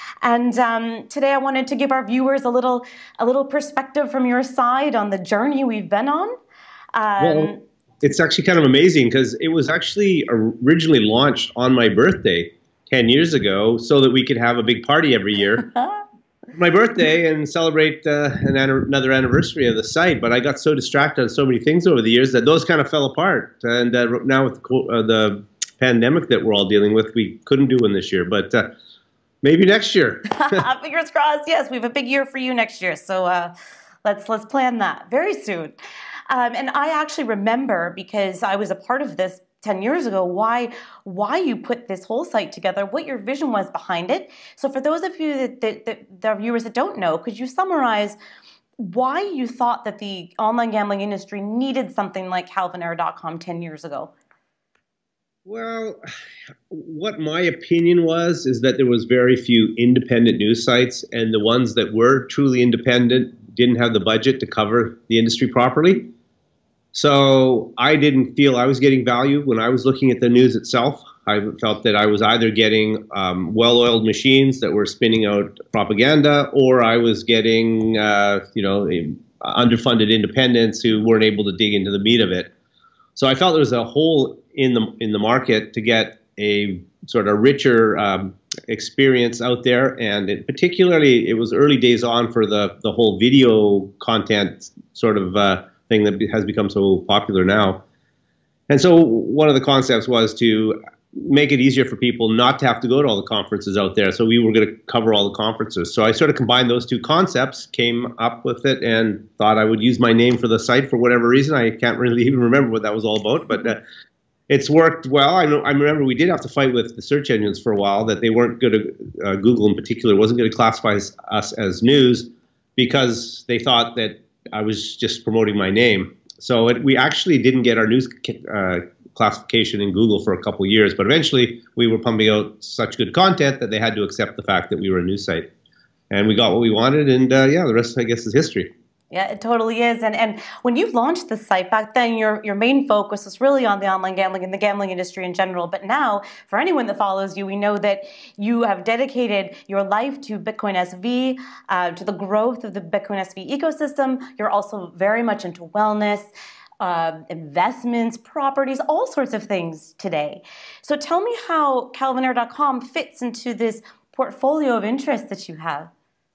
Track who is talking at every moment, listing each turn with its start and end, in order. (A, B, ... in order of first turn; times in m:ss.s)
0:00.2-0:06.3 A
0:06.9-0:07.6 A
0:07.2-0:07.5 B
0:08.0-0:15.6 B
0:15.6-0:16.0 A
0:16.5-0:28.7 B
0:29.4-0:30.5 B
0:30.3-0:33.5 A
0:34.0-0:35.8 A
0:36.3-0:48.2 A
0:48.8-0:54.1 A
0:55.4-0:56.0 B
0:56.7-1:06.1 B
1:06.9-1:22.5 B
1:23.2-1:37.8 B
1:38.7-1:53.8 B
1:54.5-2:15.5 B
2:16.1-2:18.7 B
2:19.1-2:36.3 A
2:36.8-2:45.9 A